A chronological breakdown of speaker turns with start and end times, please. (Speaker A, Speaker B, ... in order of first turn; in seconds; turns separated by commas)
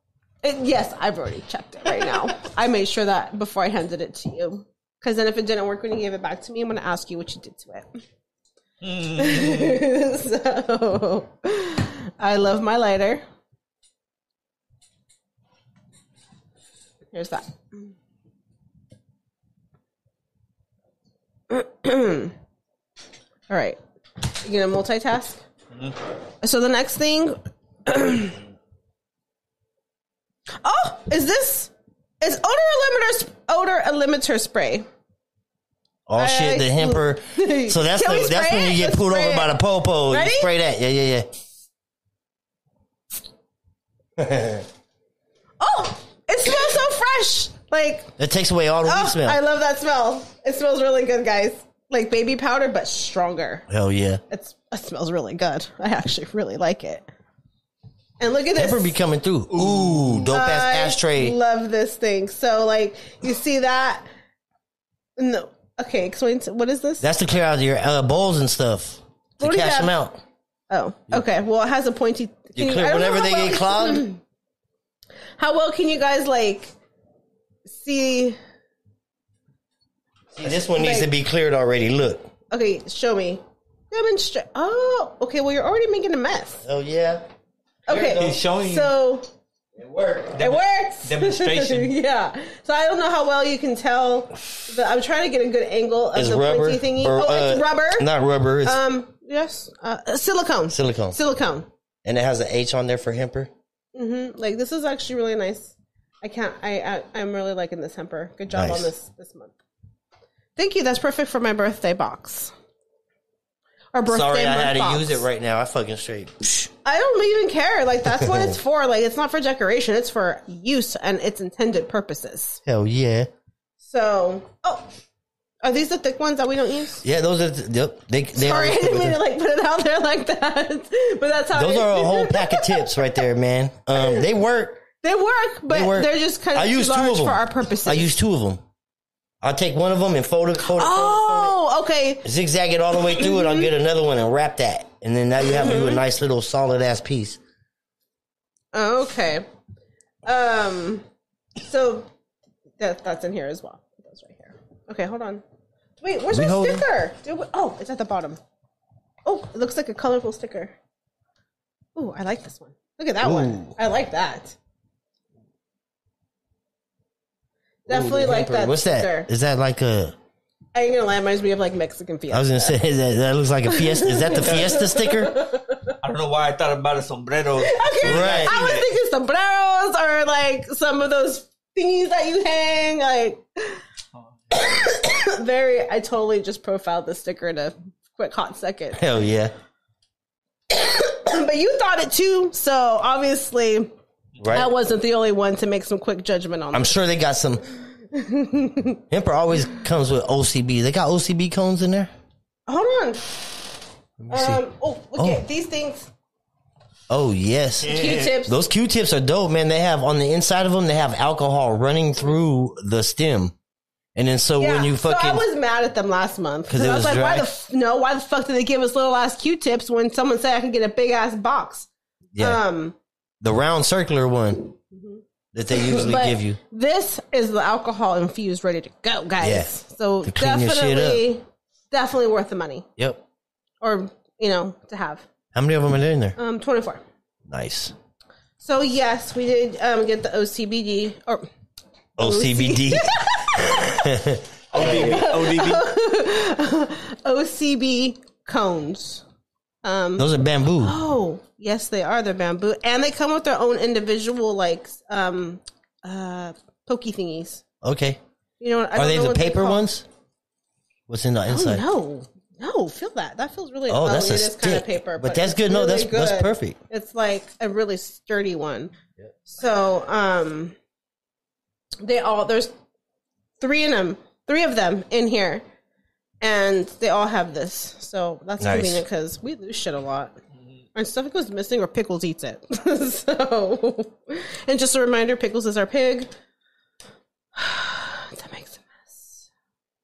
Speaker A: 0.4-8.0, Speaker B: 8.8-9.7, Speaker A: 8.9-13.2, Speaker A: 17.1-17.9, Speaker A: 21.5-22.3, Speaker A: 23.5-23.8, Speaker A: 24.3-25.4, Speaker A: 26.4-28.4, Speaker A: 30.6-34.9, Speaker C: 36.1-41.3, Speaker A: 36.2-39.5, Speaker A: 40.1-40.5, Speaker C: 44.2-44.6, Speaker A: 45.6-48.1, Speaker C: 48.2-49.4, Speaker A: 48.9-53.7, Speaker C: 53.7-54.2, Speaker A: 54.3-57.0, Speaker A: 58.2-58.9, Speaker C: 58.6-61.4, Speaker B: 59.5-60.3, Speaker A: 60.3-64.1, Speaker A: 65.2-67.0, Speaker C: 67.0-70.2, Speaker A: 69.4-70.0, Speaker A: 70.7-74.2, Speaker C: 72.6-74.1, Speaker A: 75.4-76.7, Speaker A: 77.7-78.4, Speaker C: 80.3-82.3, Speaker A: 80.8-81.1, Speaker A: 82.5-86.6, Speaker C: 86.6-87.2, Speaker C: 87.9-88.4, Speaker A: 87.9-89.3, Speaker B: 88.1-88.9, Speaker C: 89.8-90.4, Speaker B: 90.3-91.9, Speaker A: 90.4-98.1, Speaker C: 96.2-98.8, Speaker A: 98.6-101.7, Speaker C: 100.7-101.2, Speaker C: 102.0-103.5, Speaker A: 104.0-109.6, Speaker C: 108.5-108.9, Speaker A: 110.6-112.5, Speaker A: 113.9-115.2, Speaker C: 114.1-116.7, Speaker A: 116.8-122.6, Speaker C: 118.1-118.5, Speaker C: 122.7-123.3, Speaker A: 123.8-124.9, Speaker A: 125.6-127.0, Speaker C: 127.0-129.2, Speaker A: 128.4-133.1, Speaker C: 131.6-134.8, Speaker A: 134.0-134.3, Speaker A: 135.0-138.2, Speaker C: 135.7-138.6, Speaker C: 139.4-141.6, Speaker A: 140.6-142.2, Speaker C: 142.2-147.4, Speaker A: 143.2-143.7, Speaker A: 145.5-146.0, Speaker A: 148.7-149.4, Speaker A: 150.3-151.1, Speaker A: 151.6-152.1, Speaker A: 152.8-155.4, Speaker A: 156.0-158.4, Speaker C: 156.3-156.9, Speaker A: 159.3-160.8, Speaker A: 161.9-164.6, Speaker C: 163.2-163.7, Speaker A: 167.9-169.3, Speaker C: 167.9-170.2, Speaker A: 170.8-172.8, Speaker C: 172.3-175.4, Speaker A: 173.7-175.9, Speaker B: 176.0-178.9, Speaker A: 177.6-183.8, Speaker C: 178.0-178.6, Speaker A: 184.5-189.0, Speaker C: 188.9-189.5, Speaker A: 190.7-193.9, Speaker C: 194.4-194.7, Speaker A: 194.5-197.0, Speaker C: 196.7-197.6, Speaker A: 198.1-199.0, Speaker C: 199.1-202.1, Speaker A: 202.7-203.4, Speaker C: 204.2-204.6, Speaker A: 204.3-206.1, Speaker C: 205.2-205.4, Speaker C: 207.1-213.5, Speaker B: 207.8-208.3, Speaker A: 207.9-208.6, Speaker C: 214.2-215.4, Speaker A: 214.6-221.9, Speaker C: 216.7-217.5, Speaker C: 222.3-222.6, Speaker A: 222.4-222.9, Speaker C: 223.4-224.7, Speaker A: 224.9-225.2, Speaker C: 225.5-226.6, Speaker A: 225.7-232.9, Speaker C: 229.4-229.7, Speaker C: 230.2-231.2, Speaker C: 233.0-233.2, Speaker A: 233.8-235.2, Speaker C: 235.5-236.4, Speaker A: 236.4-237.0, Speaker C: 237.5-237.9, Speaker A: 238.6-241.5, Speaker C: 242.2-245.3, Speaker A: 242.2-244.0, Speaker B: 244.7-245.9, Speaker A: 244.8-249.2, Speaker A: 249.8-257.6, Speaker C: 250.2-251.0, Speaker C: 257.8-258.2, Speaker A: 258.6-259.9, Speaker C: 258.9-260.1, Speaker C: 261.1-261.8, Speaker A: 261.5-268.9, Speaker C: 263.9-266.8, Speaker A: 269.5-270.8, Speaker A: 272.0-272.7, Speaker A: 273.6-275.6, Speaker A: 276.4-280.4, Speaker C: 278.6-279.0, Speaker A: 280.9-286.3, Speaker A: 287.6-289.5